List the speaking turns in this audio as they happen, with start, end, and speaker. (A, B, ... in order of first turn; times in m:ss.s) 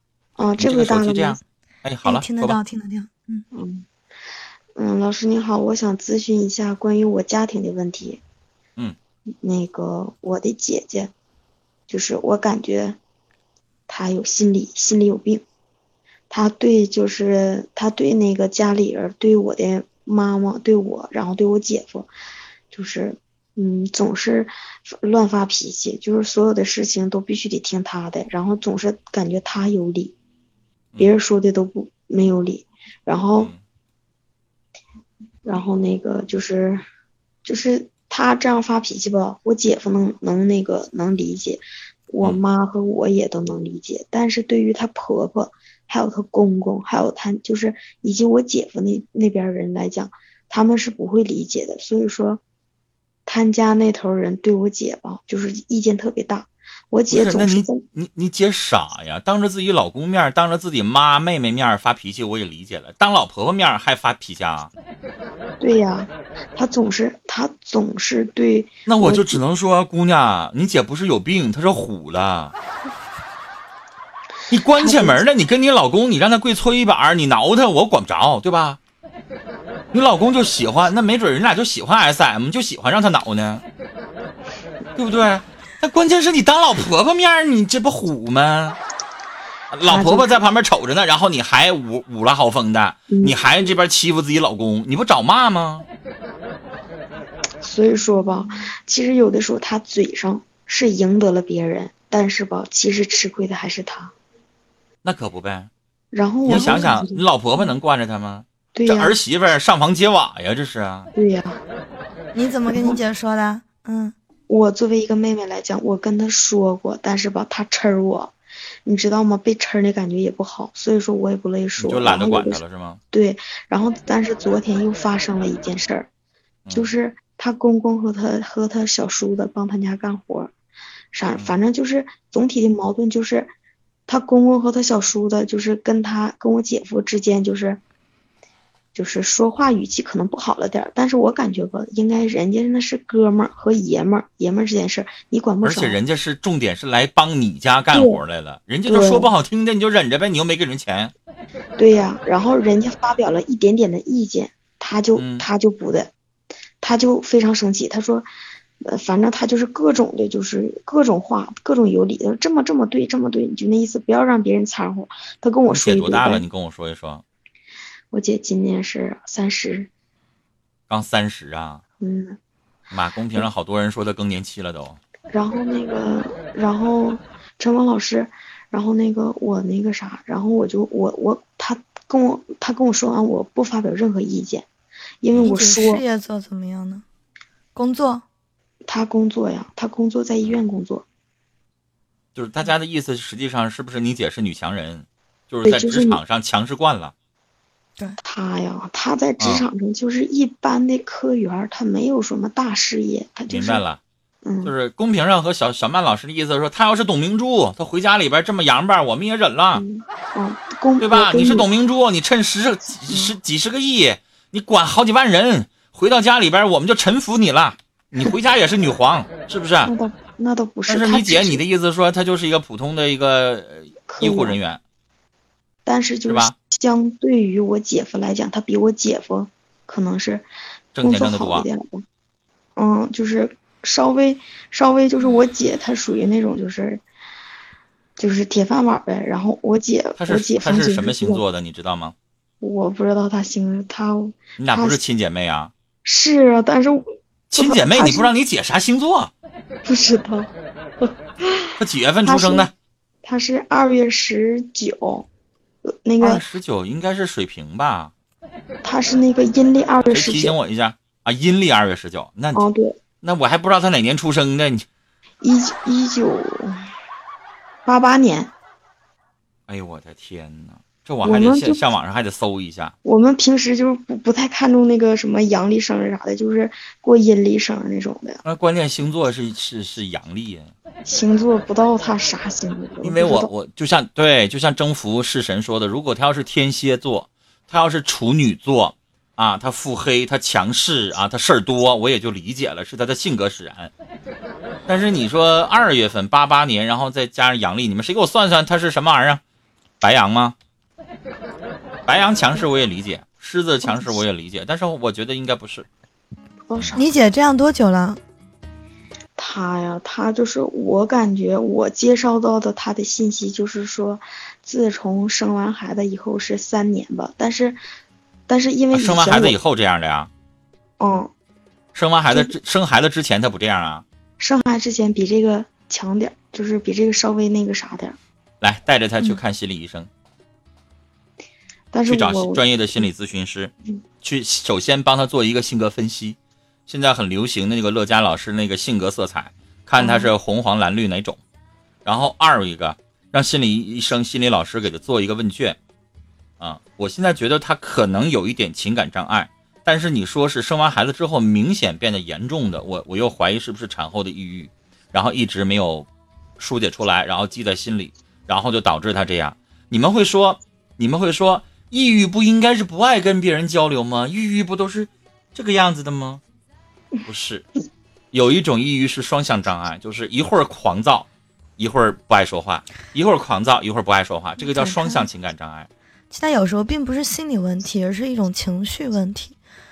0:00.4-0:01.4 A
0:00.6-0:02.6 B
0:02.0-0:03.4 C
0:03.5-0:03.8 A
0:04.8-0:08.2 A
0:09.4-0:11.1 A
0:11.9-0:13.0 A
0:13.9-0:15.4 A
0:16.3-0:22.1 A
0:22.7-0:30.1 A
0:31.0-0:33.5 A
0:35.4-0:36.8 A
0:37.4-0:52.4 A
0:53.2-0:57.8 A
0:57.1-1:04.7 B
1:05.6-1:09.4 A
1:08.8-1:12.5 B
1:14.5-1:18.8 B
1:14.7-1:15.2 A
1:19.9-1:23.6 B
1:24.9-1:28.8 B
1:29.7-1:35.8 B
1:29.8-1:30.4 A
1:33.1-1:33.4 A
1:37.6-1:44.1 A
1:45.0-1:45.7 B
1:46.1-1:47.7 A
1:46.4-1:51.1 B
1:46.5-1:46.8 C
1:48.7-1:49.2 A
1:51.1-1:51.6 A
1:52.3-1:54.1 C
1:52.7-1:53.0 A
1:54.5-1:58.3 A
1:58.8-2:06.1 A
2:01.8-2:03.0 B
2:06.6-2:06.9 B
2:06.7-2:10.5 A
2:11.1-2:13.5 A
2:11.3-2:11.6 B
2:14.1-2:17.8 A
2:18.9-2:26.0 A
2:25.6-2:31.1 B
2:27.9-2:28.2 A
2:28.9-2:29.3 A
2:31.8-2:36.1 A
2:35.2-2:35.5 B
2:36.8-2:38.3 A
2:38.8-2:46.5 A
2:45.7-2:47.2 B
2:48.1-2:49.9 A
2:50.9-2:51.8 B
2:52.0-2:52.4 A
2:52.9-2:55.0 B
2:55.3-3:04.7 A
3:05.2-3:06.0 A
3:05.4-3:07.0 C
3:07.7-3:08.2 C
3:08.9-3:11.0 A
3:12.3-3:17.1 B
3:15.6-3:16.2 A
3:18.2-3:23.8 A
3:19.4-3:19.6 B
3:23.5-3:24.0 B
3:24.4-3:24.7 A
3:24.6-3:29.8 B
3:29.7-3:31.7 A
3:31.0-3:39.9 B
3:33.1-3:33.3 A
3:39.8-3:41.6 A
3:40.9-3:44.8 B
3:44.1-3:44.6 A
3:45.8-3:50.5 A
3:46.3-3:46.5 B
3:50.9-3:51.7 B
3:51.0-3:52.0 A
3:52.8-3:57.0 A
3:58.2-4:01.4 A
4:00.2-4:02.1 B
4:02.6-4:05.0 A
4:04.6-4:05.7 B
4:06.0-4:08.3 A
4:07.5-4:09.3 B
4:09.8-4:12.7 A
4:11.8-4:12.7 B
4:13.2-4:15.3 A
4:16.0-4:16.4 A
4:16.2-4:18.1 B
4:18.8-4:20.6 A
4:20.1-4:22.6 B
4:22.5-4:23.0 A
4:23.2-4:24.8 B
4:25.4-4:26.8 A
4:27.8-4:28.5 A
4:29.7-4:32.9 B
4:31.2-4:31.8 A
4:33.0-4:38.4 A
4:38.4-4:40.7 B
4:41.0-4:43.5 A
4:43.0-4:53.9 B
4:54.9-4:59.4 B
5:00.0-5:00.6 B
5:02.1-5:05.9 B
5:06.7-5:07.0 A
5:06.9-5:08.2 C
5:09.4-5:17.8 A
5:18.5-5:19.6 A
5:18.9-5:20.3 B
5:21.0-5:21.3 A
5:21.9-5:24.0 B
5:24.4-5:28.2 A
5:28.6-5:30.1 B
5:31.9-5:32.6 A
5:32.1-5:41.4 B
5:40.0-5:40.3 A
5:42.0-5:45.8 B
5:46.6-5:56.1 B
5:56.6-6:06.4 B
6:07.2-6:07.7 B
6:08.3-6:15.9 B
6:14.7-6:15.3 C
6:16.3-6:19.6 C